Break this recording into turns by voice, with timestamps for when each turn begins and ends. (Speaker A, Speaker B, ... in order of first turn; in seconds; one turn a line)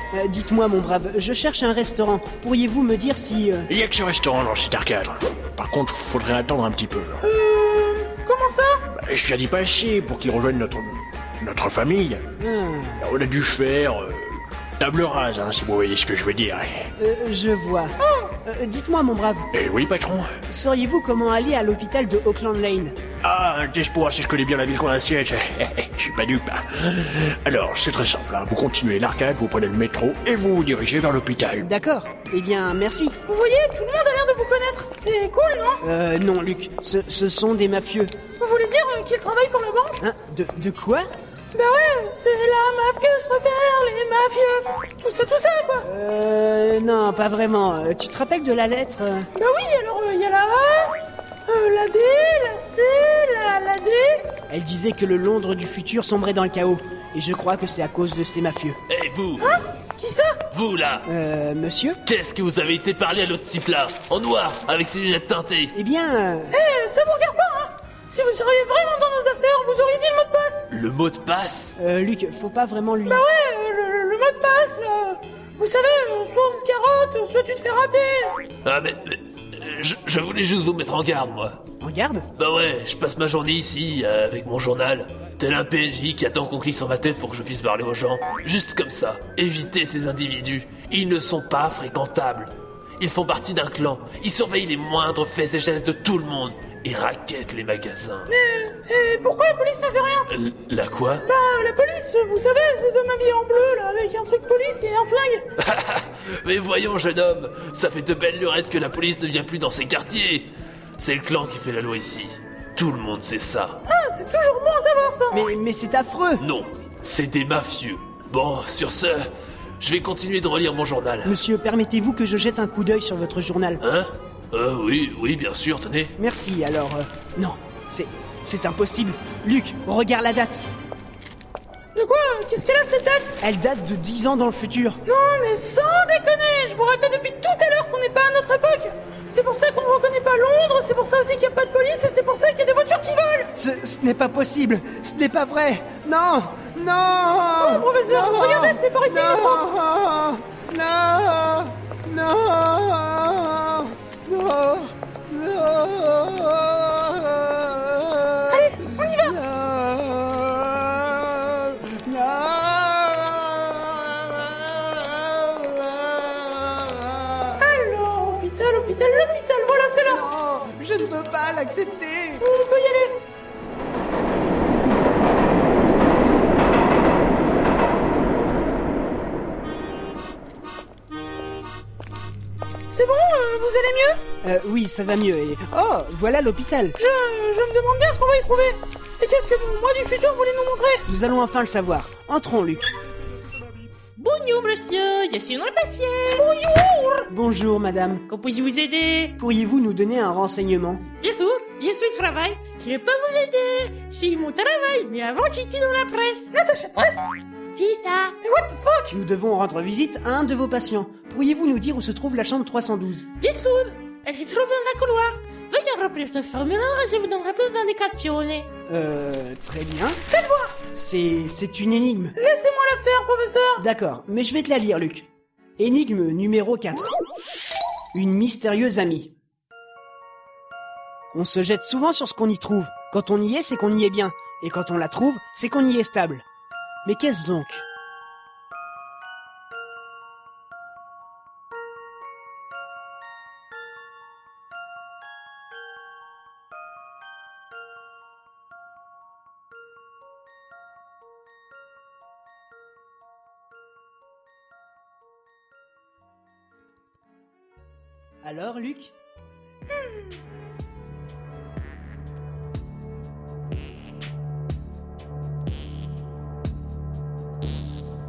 Speaker A: 0.1-3.7
Speaker B: 3.7-7.2
Speaker C: 7.2-8.8
Speaker B: 8.9-12.2
Speaker A: 12.4-13.1
Speaker B: 13.0-16.9
Speaker A: 17.0-19.5
Speaker C: 18.0-18.4
Speaker B: 19.5-20.3
Speaker A: 20.5-22.9
Speaker B: 23.2-31.7
Speaker A: 31.6-33.2
Speaker C: 33.3-35.8
Speaker A: 35.8-38.1
Speaker C: 38.4-40.0
Speaker A: 40.0-41.1
Speaker C: 41.5-45.9
Speaker A: 45.8-49.3
Speaker C: 49.4-51.0
Speaker C: 51.5-54.3
Speaker A: 54.5-58.8
Speaker D: 58.9-59.5
Speaker C: 59.4-60.4
Speaker D: 60.5-61.1
Speaker A: 61.0-62.0
Speaker D: 62.1-65.7
Speaker A: 65.7-66.6
Speaker C: 66.5-70.7
Speaker D: 70.7-71.7
Speaker A: 71.8-73.2
Speaker C: 73.1-78.4
Speaker D: 78.7-81.6
Speaker A: 81.8-82.3
Speaker D: 82.4-98.3
Speaker C: 98.3-100.3
Speaker D: 100.3-101.3
Speaker C: 101.3-105.5
Speaker D: 105.7-113.8
Speaker C: 113.9-115.5
Speaker A: 115.3-116.4
Speaker D: 116.4-119.3
Speaker D: 119.8-121.4
Speaker A: 121.2-123.8
Speaker D: 123.8-126.1
Speaker A: 126.2-130.7
Speaker C: 131.9-133.3
Speaker A: 133.4-135.0
Speaker C: 135.1-143.5
Speaker A: 143.6-167.6
Speaker C: 147.6-149.7
Speaker C: 158.5-159.4
Speaker C: 167.6-170.3
Speaker A: 170.1-172.4
Speaker C: 172.4-173.1
Speaker C: 182.9-184.2
Speaker A: 184.4-187.0
Speaker C: 187.0-191.0
Speaker A: 191.1-192.9
Speaker E: 194.2-196.4
Speaker C: 196.3-197.3
Speaker A: 197.3-198.2
Speaker E: 198.3-199.3
Speaker A: 199.4-201.0
Speaker E: 201.2-206.4
Speaker C: 206.5-207.2
Speaker E: 207.8-208.3
Speaker C: 208.4-209.2
Speaker A: 209.1-213.3
Speaker E: 213.4-218.7
Speaker A: 218.9-220.2
Speaker C: 220.3-220.8
Speaker A: 220.9-222.3
Speaker C: 222.4-223.8
Speaker A: 223.8-227.2
Speaker A: 228.1-229.3
Speaker A: 231.3-236.4
Speaker A: 237.1-237.8
Speaker A: 258.4-259.1
Speaker C: 259.9-260.3